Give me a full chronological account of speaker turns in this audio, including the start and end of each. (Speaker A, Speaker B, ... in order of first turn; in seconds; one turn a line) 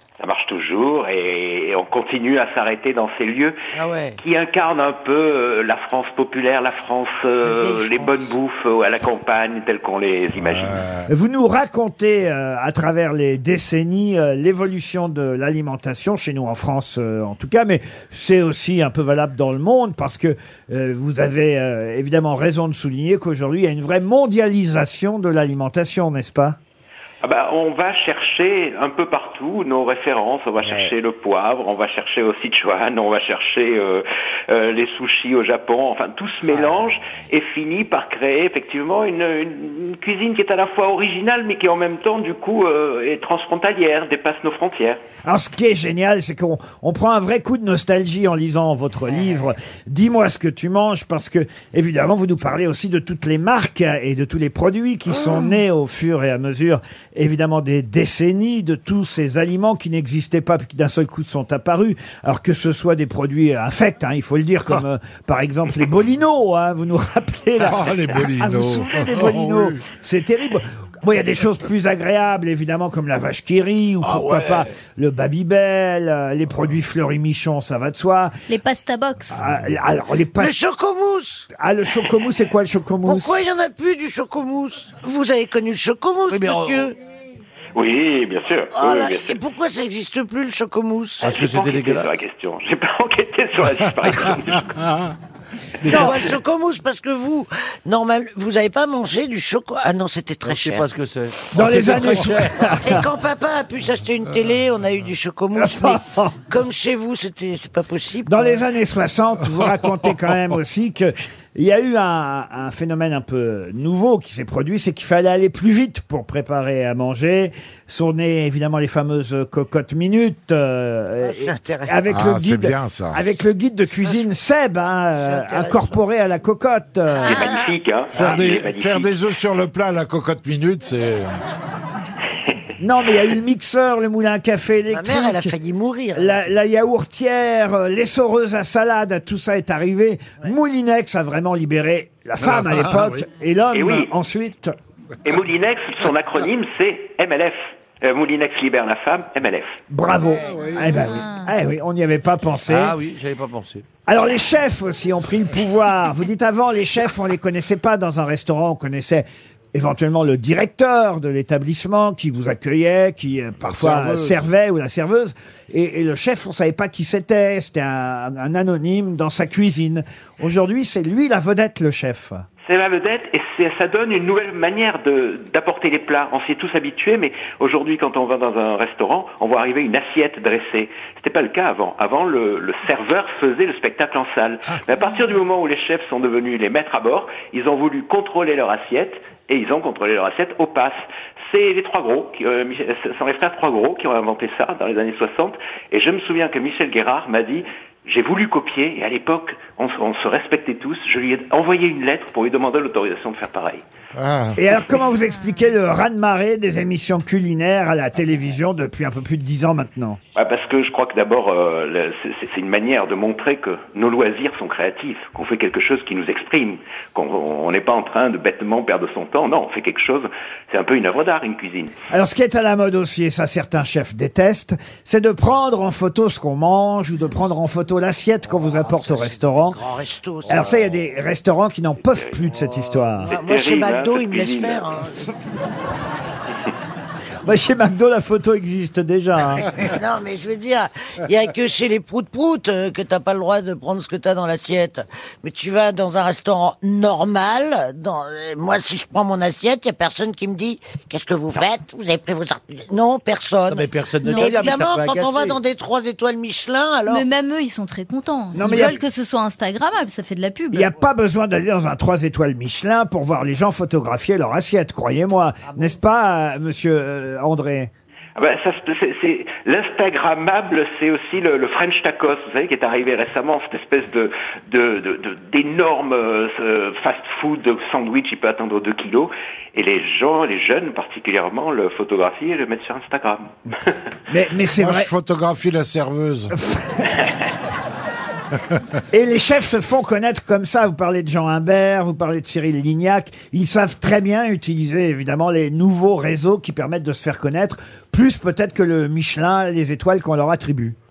Speaker A: 0.2-3.5
Speaker B: 3.7-4.2
Speaker A: 4.2-10.9
Speaker B: 7.4-8.3
Speaker C: 10.4-11.1
Speaker D: 11.1-26.6
Speaker A: 27.2-45.0
Speaker B: 30.6-30.9
Speaker B: 36.5-37.2
Speaker D: 45.2-78.3
Speaker C: 67.7-69.8
Speaker C: 74.0-74.6
Speaker E: 78.5-79.5
Speaker D: 79.3-80.5
Speaker B: 80.3-81.5
Speaker D: 81.5-83.4
Speaker B: 83.0-87.0
Speaker F: 86.3-86.9
Speaker A: 87.8-89.4
Speaker B: 88.7-91.3
Speaker A: 91.2-94.9
Speaker F: 91.2-92.1
Speaker F: 95.8-96.1
Speaker D: 95.8-96.3
Speaker B: 95.8-100.8
Speaker F: 100.4-102.7
Speaker D: 101.5-103.0
Speaker B: 102.4-108.6
Speaker D: 105.5-106.3
Speaker D: 108.2-127.3
Speaker B: 121.2-122.0
Speaker C: 122.1-123.2
Speaker B: 125.2-126.0
Speaker B: 127.1-127.7
Speaker A: 127.2-129.2
Speaker C: 128.1-131.4
Speaker D: 128.2-128.6
Speaker D: 132.8-135.6
Speaker B: 134.9-136.4
Speaker D: 136.1-144.7
Speaker A: 143.7-144.1
Speaker A: 145.2-149.8
Speaker D: 149.9-153.0
Speaker C: 150.5-150.9
Speaker E: 151.0-151.5
Speaker F: 152.7-153.8
Speaker D: 154.1-172.4
Speaker C: 163.6-164.4
Speaker A: 172.6-203.8
Speaker C: 204.1-204.6
Speaker D: 204.6-210.2
Speaker A: 210.3-221.9
Speaker D: 222.1-229.8
Speaker B: 228.7-230.8
Speaker D: 230.5-233.3
Speaker A: 233.2-235.3
Speaker B: 233.3-235.3
Speaker D: 237.4-239.7
Speaker B: 239.6-257.2
Speaker F: 253.7-255.6
Speaker E: 257.1-260.9
Speaker D: 258.5-259.0
Speaker D: 260.7-267.9
Speaker A: 268.4-283.9
Speaker D: 284.3-285.1
Speaker C: 284.8-286.5
Speaker D: 286.5-287.1
Speaker D: 289.1-300.9